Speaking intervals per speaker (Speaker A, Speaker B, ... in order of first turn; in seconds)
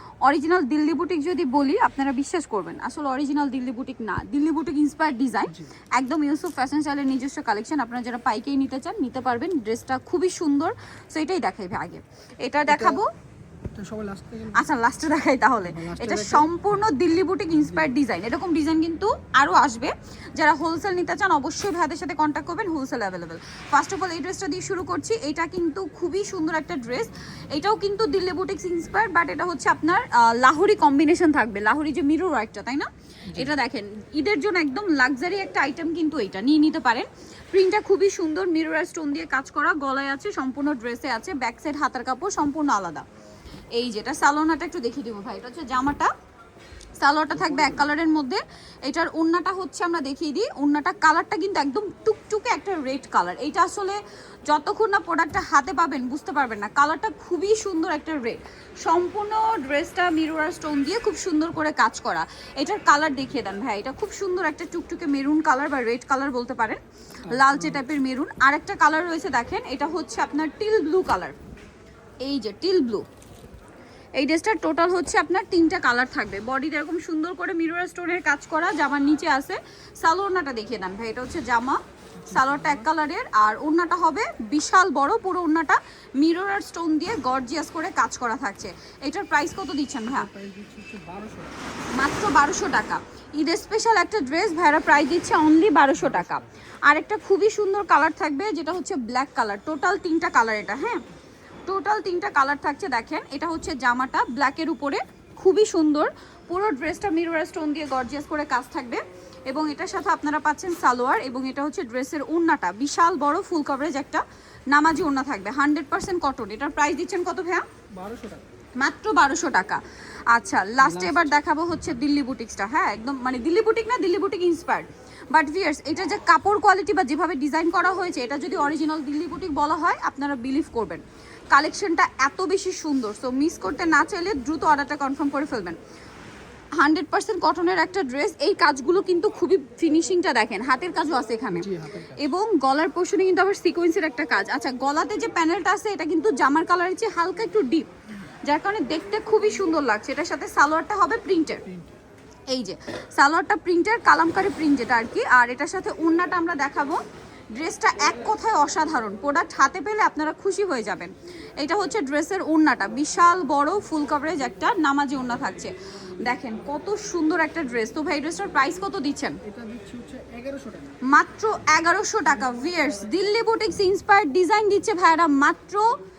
Speaker A: 0.2-13.1, 14.5-43.0, 43.8-46.1, 47.0-71.4, 72.2-73.0, 74.2-90.3, 91.9-101.0, 101.7-117.6, 118.8-135.8, 136.8-147.9, 148.4-151.6, 152.5-157.0, 157.6-169.4, 171.1-176.0
Speaker B: 12.7-13.0, 13.7-14.7, 15.6-16.5, 47.4-47.8, 67.3-67.8, 82.2-82.9, 90.1-91.6, 96.0-96.4, 118.0-118.4, 120.8-121.3, 141.5-142.2, 151.7-151.9, 169.4-170.9